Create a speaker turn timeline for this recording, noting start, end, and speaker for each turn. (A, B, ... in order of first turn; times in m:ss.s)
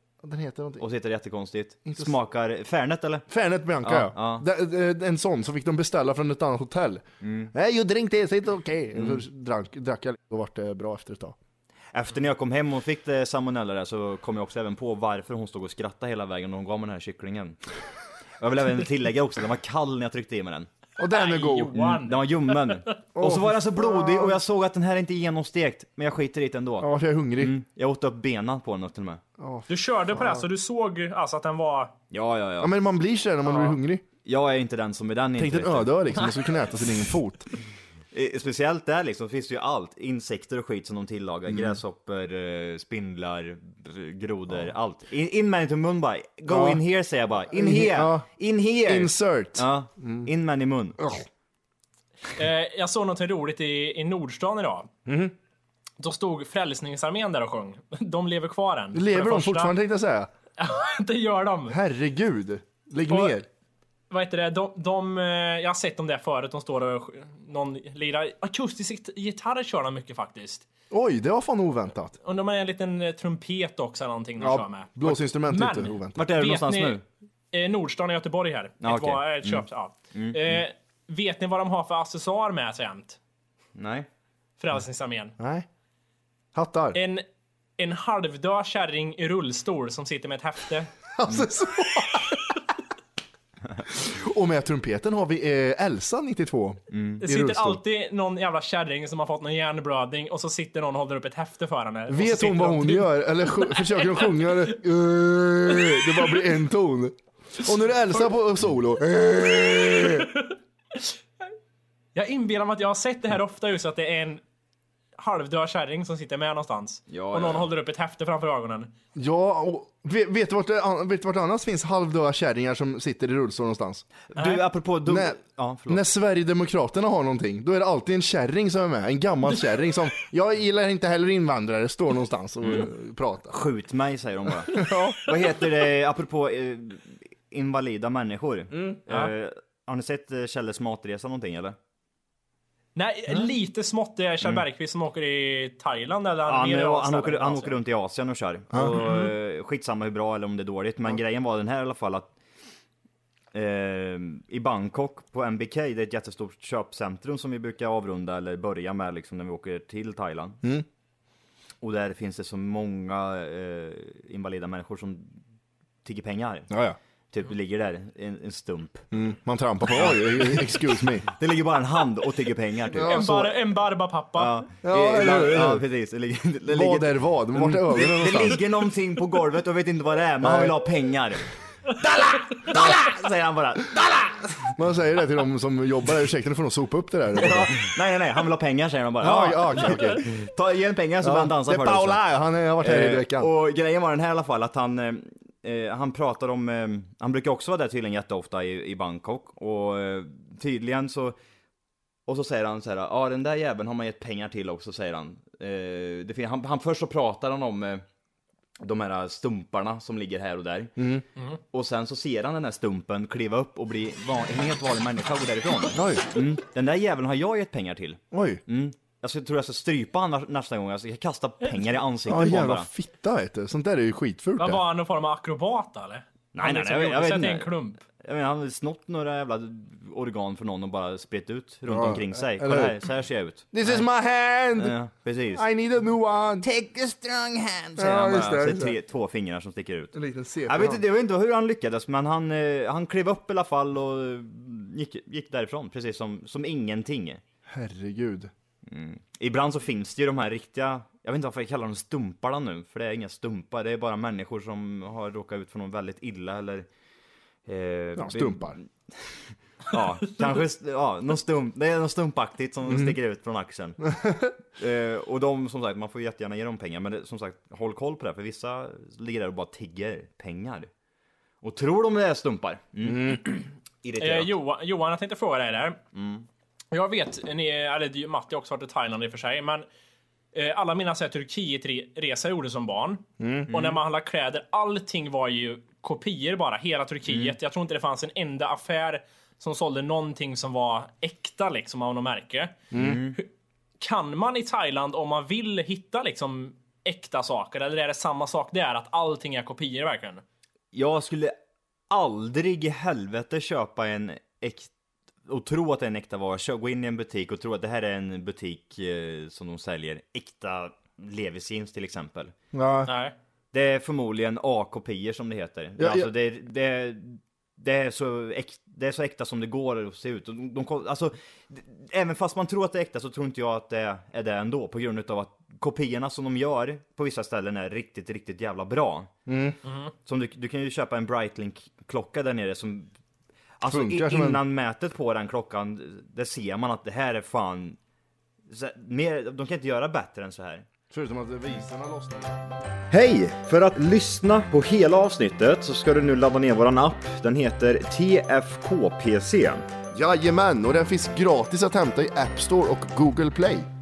0:00.2-0:00.8 A
0:00.8-0:03.2 B
0:01.8-0:02.1 A
0:03.3-0:11.4 A
0:03.8-0:04.4 B
0:07.2-0:07.5 B
0:09.0-0:09.2 B
0:11.9-0:17.6 B
0:18.4-0:20.7 B
0:21.0-0:22.0 A
0:21.1-0:22.7 C
0:21.7-0:29.2 B
0:23.1-0:24.4 A
0:26.8-0:27.5 A
0:29.4-0:30.4 A
0:29.7-0:31.9 C
0:32.1-0:32.7 B
0:32.6-0:34.0 A
0:34.2-0:36.2 B
0:35.4-0:37.5 A
0:38.1-0:51.0 B
0:46.5-0:46.8 A
0:47.5-0:48.3 A
0:48.8-0:50.3 A
0:51.0-0:51.2 A
0:52.4-0:54.9 C
0:55.0-0:55.3 A
0:56.0-0:59.7 C
0:58.9-1:00.3 A
1:00.6-1:01.8 C
1:01.7-1:03.4 A
1:03.1-1:03.4 C
1:04.1-1:10.6 C
1:10.9-1:12.2 A
1:12.2-1:17.0 C
1:14.4-1:16.3 A
1:16.2-1:17.0 B
1:17.5-1:23.2 C
1:18.8-1:20.6 B
1:23.8-1:24.1 B
1:24.6-1:25.3 C
1:25.4-1:25.6 A
1:26.5-1:27.0 A
1:26.9-1:27.2 C
1:27.8-1:30.9 C
1:31.2-1:32.5 A
1:33.9-1:37.8 A
1:36.9-1:37.2 B
1:37.2-1:44.7 C
1:42.1-1:50.3 A
1:45.7-1:46.4 C
1:49.9-1:51.1 C
1:52.1-1:54.4 C
1:55.2-1:58.9 C
1:57.1-1:57.7 B
1:59.2-2:04.0 A
2:04.3-2:06.0 B
2:04.4-2:04.6 C
2:05.0-2:05.4 A
2:05.9-2:13.5 A
2:12.6-2:12.9 B
2:13.5-2:21.8 B
2:14.7-2:15.3 A
2:18.7-2:19.0 A
2:23.0-2:27.8 C
2:26.5-2:32.3 B
2:33.5-2:40.6 B
2:41.8-2:45.4 B
2:46.0-2:46.7 B
2:46.7-2:47.0 A
2:47.3-2:49.1 B
2:49.1-2:51.2 A
2:49.9-2:50.7 B
2:51.2-2:53.2 B
2:52.9-2:53.6 A
2:53.0-2:54.5 C
2:54.4-3:04.7 B
2:54.8-2:55.8 A
2:56.7-2:58.6 A
3:00.4-3:00.7 A
3:04.8-3:07.8 A
3:07.4-3:12.2 B
3:09.2-3:10.2 A
3:11.2-3:13.5 A
3:12.8-3:21.4 B
3:22.2-3:28.0 B
3:28.8-3:31.0 B
3:31.0-3:31.2 A
3:31.7-3:42.9 B
3:35.9-3:36.2 A
3:38.3-3:38.6 A
3:42.3-3:44.8 A
3:44.6-3:48.0 C
3:46.5-3:54.0 B
3:51.9-3:52.9 A
3:53.7-3:54.9 A
3:54.8-3:55.6 B
3:55.6-3:56.6 A
3:56.6-4:00.1 B
3:58.0-3:58.9 A
4:00.1-4:01.0 A
4:00.7-4:07.4 B
4:07.7-4:08.5 A
4:08.8-4:16.9 B
4:17.6-4:24.0 B
4:18.2-4:18.8 A
4:22.9-4:23.1 A
4:24.0-4:24.5 A
4:24.8-4:30.9 B
4:31.6-4:34.5 B
4:33.0-4:33.4 A
4:34.2-4:36.0 C
4:36.1-4:36.4 B
4:36.9-4:39.8 C
4:40.5-4:52.8 C
4:43.4-4:43.7 A
4:47.3-4:47.5 B
4:52.9-4:53.2 A
4:52.9-4:53.4 B
4:54.0-5:00.4 C
5:00.9-5:01.5 B
5:02.1-5:04.9 B
5:05.4-5:12.5 B
5:12.7-5:13.1 A
5:13.0-5:13.3 C
5:13.7-5:29.3 B
5:16.0-5:16.3 A
5:29.5-5:29.8 A
5:30.2-5:33.1 B
5:33.8-5:38.0 B
5:33.9-5:34.6 A
5:38.7-5:40.8 B
5:41.1-5:42.6 A
5:43.1-5:49.8 B
5:50.1-5:53.9 A